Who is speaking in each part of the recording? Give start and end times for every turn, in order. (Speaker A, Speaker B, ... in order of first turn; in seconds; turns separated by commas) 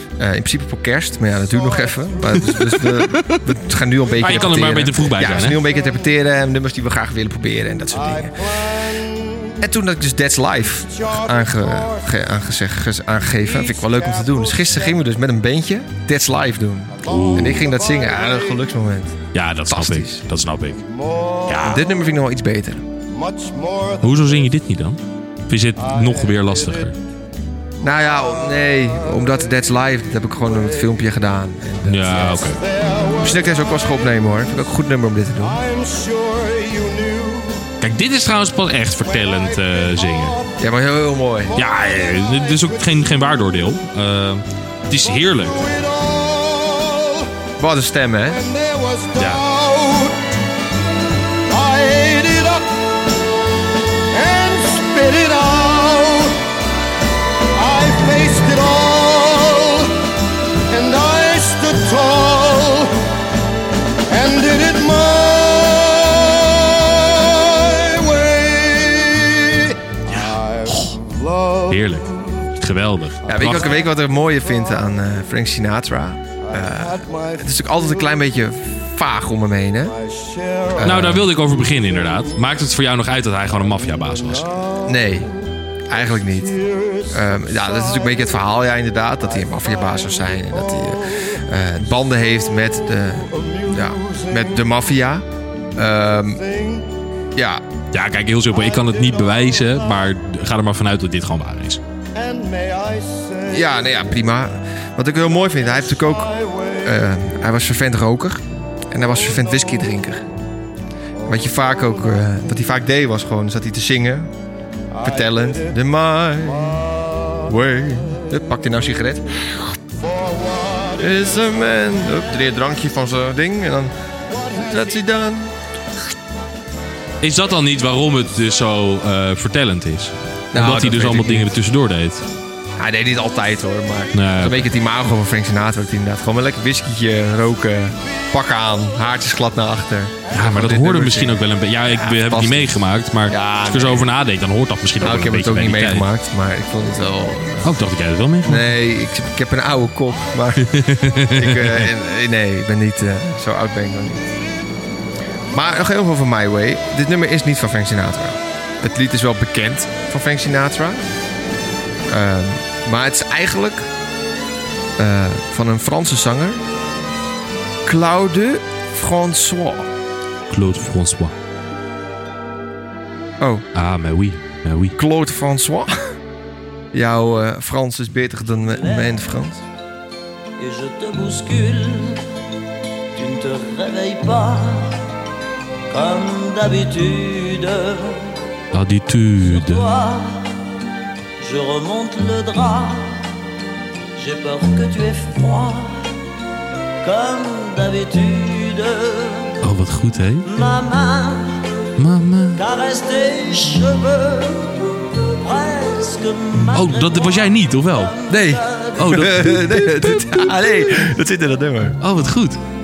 Speaker A: 0.2-8.8, Speaker B: 1.7-2.1, Speaker C: 2.5-3.5, Speaker C: 4.2-5.6, Speaker B: 8.0-9.6, Speaker A: 9.6-20.2, Speaker B: 10.9-12.0, Speaker B: 13.5-14.9, Speaker C: 17.0-17.7, Speaker B: 17.1-18.5, Speaker C: 19.3-20.8, Speaker B: 20.9-21.5, Speaker C: 21.5-21.8, Speaker A: 21.6-22.9, Speaker B: 23.1-24.0, Speaker C: 24.0-27.0, Speaker B: 25.8-26.9, Speaker A: 27.8-32.6, Speaker C: 31.9-32.6, Speaker B: 32.6-33.3, Speaker A: 33.2-35.6, Speaker B: 35.5-37.7, Speaker C: 37.8-40.4, Speaker A: 40.6-41.6, Speaker C: 41.5-45.8, Speaker B: 45.5-47.4, Speaker A: 47.6-48.5, Speaker B: 48.3-50.2, Speaker C: 49.2-49.4, Speaker B: 51.5-52.9, Speaker B: 54.1-56.5, Speaker B: 57.5-60.0, Speaker B: 60.7-63.1, Speaker B: 64.1-72.2, Speaker C: 70.1-71.0, Speaker C: 71.7-73.8, Speaker A: 73.3-80.0, Speaker B: 76.5-77.8, Speaker B: 80.0-80.8, Speaker A: 80.8-81.3, Speaker C: 80.8-84.6, Speaker B: 84.1-85.1, Speaker A: 84.8-85.3, Speaker A: 85.9-86.6, Speaker B: 86.4-88.2, Speaker A: 87.1-96.4, Speaker B: 90.8-91.0, Speaker B: 93.4-94.5, Speaker B: 96.4-96.9, Speaker A: 97.3-97.6, Speaker C: 97.9-101.8, Speaker B: 102.2-103.8, Speaker A: 103.5-106.3, Speaker B: 106.2-106.9, Speaker A: 106.8-110.3, Speaker A: 111.3-114.3, Speaker B: 115.0-115.6, Speaker A: 115.0-116.9, Speaker A: 117.5-119.7, Speaker B: 120.4-120.9, Speaker A: 121.0-123.9, Speaker A: 124.5-125.6, Speaker C: 127.2-132.2, Speaker A: 130.5-131.5, Speaker A: 132.8-144.1, Speaker C: 134.1-134.7, Speaker C: 140.3-146.1, Speaker A: 145.0-147.9, Speaker C: 147.6-148.7, Speaker A: 148.4-154.3, Speaker C: 150.6-151.9, Speaker A: 155.5-161.1, Speaker A: 162.1-163.9, Speaker A: 165.0-166.6, Speaker A: 167.8-169.9, Speaker C: 170.5-171.3, Speaker A: 173.4-173.7, Speaker C: 173.7-175.0, Speaker A: 175.0-176.2, Speaker A: 176.9-179.7, Speaker D: 180.6-182.3, Speaker D: 183.1-185.1, Speaker D: 185.9-188.3, Speaker C: 188.7-189.9, Speaker D: 189.5-190.6, Speaker D: 191.4-193.4, Speaker D: 194.2-196.1, Speaker D: 197.0-199.6, Speaker C: 199.6-200.5, Speaker D: 200.5-201.6, Speaker C: 202.0-202.6, Speaker D: 202.6-209.1, Speaker C: 206.7-210.5, Speaker A: 208.3-212.0, Speaker C: 212.0-212.6